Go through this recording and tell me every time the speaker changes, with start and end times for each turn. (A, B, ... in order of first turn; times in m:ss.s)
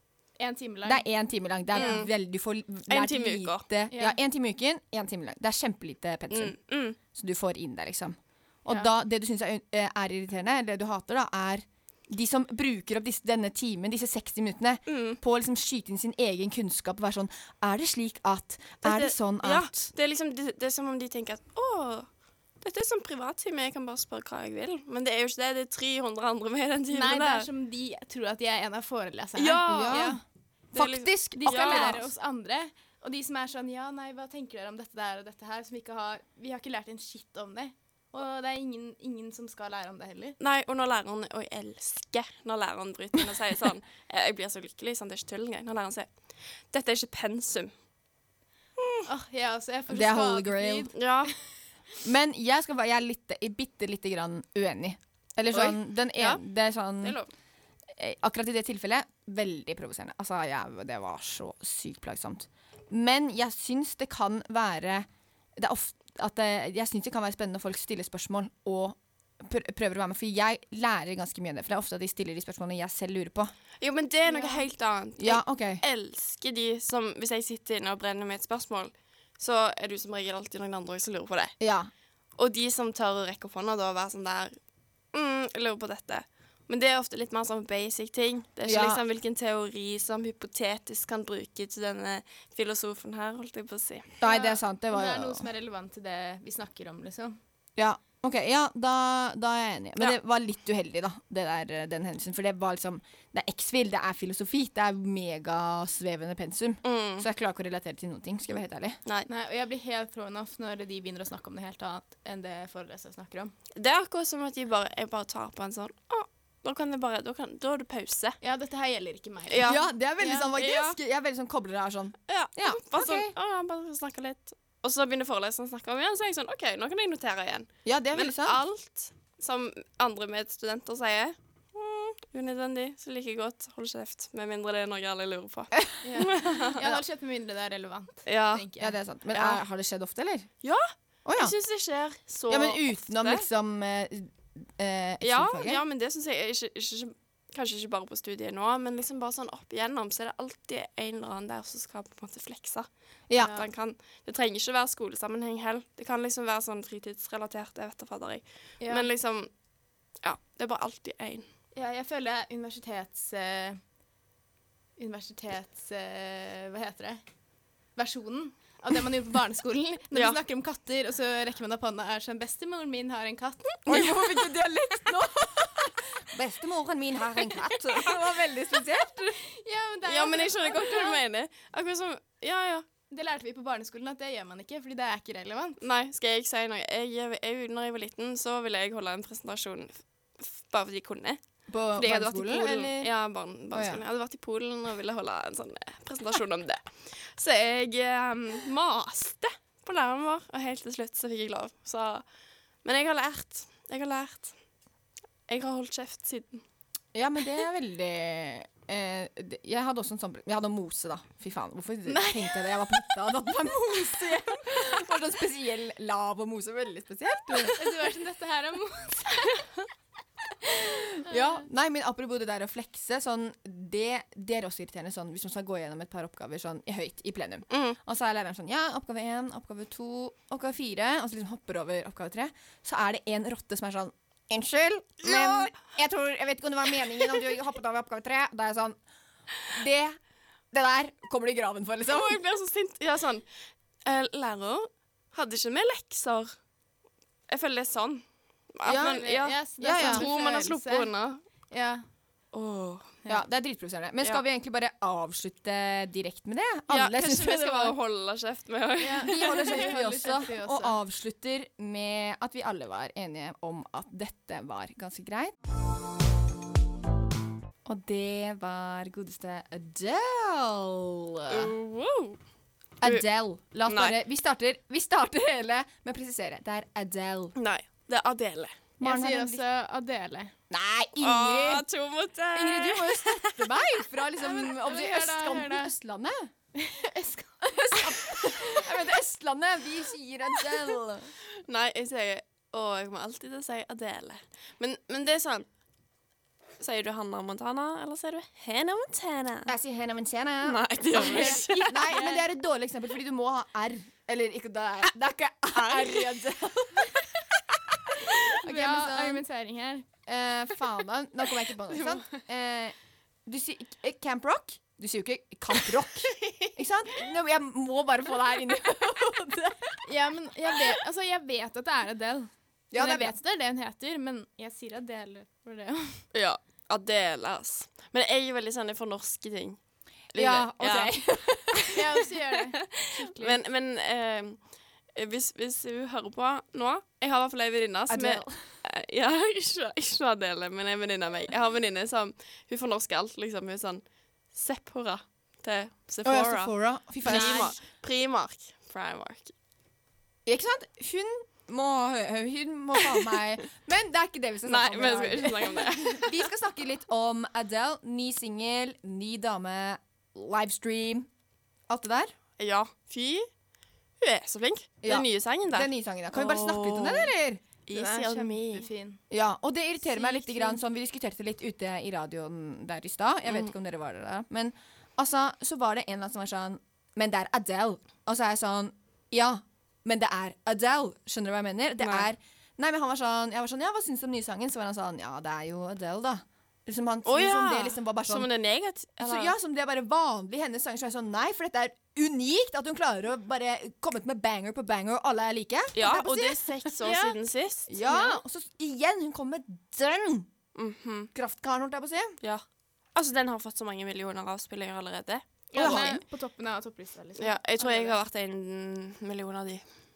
0:00.4-0:01.0 A
0:00.8-0:06.6 B
0:01.8-0:02.1 C
0:02.9-0:03.6 C
0:03.9-0:04.2 A
0:06.3-0:07.0 C
0:07.1-0:19.9 B
0:14.9-0:15.2 C
0:18.8-0:22.1 C
0:22.6-0:27.5 C
0:26.9-0:30.2 A
0:29.4-0:30.2 C
0:29.7-0:30.2 B
0:30.7-0:32.1 C
0:30.7-0:32.0 B
0:31.4-0:40.4 A
0:40.4-0:46.1 C
0:46.7-0:47.7 C
0:48.8-0:49.1 C
0:49.1-0:51.1 A
0:49.9-0:50.9 B
0:51.0-0:51.3 C
0:52.0-0:57.2 B
0:55.5-0:56.4 C
0:57.0-0:57.3 C
0:57.9-1:13.5 B
1:13.8-1:21.6 C
1:14.3-1:14.7 A
1:15.2-1:15.8 B
1:21.6-1:21.9 B
1:22.4-1:24.6 C
1:25.1-1:34.2 C
1:28.7-1:29.0 B
1:34.2-1:35.4 B
1:34.2-1:37.4 A
1:37.8-1:49.0 B
1:46.8-1:47.3 C
1:49.3-1:53.5 A
1:53.8-1:58.4 C
1:58.4-2:00.4 A
1:59.5-1:59.8 C
1:59.6-2:03.3 B
2:00.4-2:01.0 C
2:02.3-2:16.8 C
2:07.9-2:08.6 B
2:16.0-2:19.0 A
2:18.3-2:18.6 C
2:18.8-2:20.5 B
2:20.6-2:23.5 C
2:21.2-2:21.6 B
2:22.5-2:25.8 B
2:25.2-2:32.9 C
2:33.3-2:33.6 B
2:33.4-2:39.5 C
2:38.8-2:39.1 A
2:40.2-2:41.5 C
2:41.8-2:43.8 A
2:45.0-2:47.2 A
2:48.0-2:54.0 A
2:50.1-2:50.4 C
2:53.9-2:59.4 B
2:53.9-2:54.2 C
2:59.3-3:01.2 A
3:00.1-3:02.8 C
3:03.1-3:05.8 A
3:05.8-3:11.4 C
3:11.7-3:13.1 B
3:12.0-3:22.2 C
3:13.7-3:14.0 B
3:22.8-3:24.5 C
3:25.5-3:26.6 C
3:27.1-3:37.8 B
3:32.1-3:32.8 A
3:37.8-3:39.7 A
3:40.8-3:59.0 B
3:47.7-3:48.0 C
3:55.2-3:55.7 C
3:59.7-4:00.2 B
4:00.7-4:02.4 B
4:02.1-4:03.5 C
4:04.0-4:06.5 C
4:07.5-4:11.4 C
4:08.8-4:10.3 B
4:09.0-4:11.1 A
4:11.7-4:12.0 A
4:12.5-4:13.2 C
4:13.3-4:18.0 B
4:16.9-4:19.9 C
4:19.0-4:21.0 A
4:19.2-4:25.6 B
4:27.8-4:31.7 B
4:31.5-4:32.4 C
4:33.0-4:37.5 B
4:33.9-4:34.2 C
4:37.6-4:38.8 C
4:39.0-4:39.6 B
4:39.0-4:40.5 A
4:40.7-4:41.8 B
4:41.2-4:43.8 C
4:42.5-4:46.5 B
4:44.4-4:45.9 A
4:46.8-4:48.3 A
4:47.8-4:51.3 B
4:51.6-4:55.7 C
4:56.8-4:59.7 C
4:59.7-5:09.4 B
5:00.6-5:02.0 C
5:01.1-5:02.5 A
5:05.7-5:06.4 C
5:08.4-5:10.1 A
5:10.3-5:13.0 B
5:13.5-5:20.0 B
5:20.0-5:26.2 A
5:22.9-5:23.3 B
5:26.3-5:29.8 C
5:30.3-5:31.9 C
5:30.4-5:32.0 B
5:31.9-5:33.6 A
5:32.9-5:49.5 C
5:38.1-5:38.6 B
5:46.2-5:47.8 B
5:47.3-5:47.6 A
5:50.5-6:01.3 B
5:54.7-5:56.4 C
6:01.9-6:02.3 B
6:02.6-6:03.5 C
6:04.2-6:07.3 C
6:05.0-6:08.0 B
6:07.9-6:08.9 C
6:08.0-6:09.2 A
6:09.3-6:28.5 B
6:10.0-6:10.8 A
6:22.0-6:22.3 C
6:27.2-6:29.5 C
6:29.2-6:36.7 B
6:36.0-6:37.9 C
6:37.0-6:37.4 A
6:37.9-6:40.5 B
6:38.0-6:38.4 A
6:40.8-6:41.3 C
6:41.3-6:42.4 B
6:43.2-6:46.2 C
6:45.7-6:48.2 A
6:45.8-6:46.2 B
6:47.4-6:49.8 C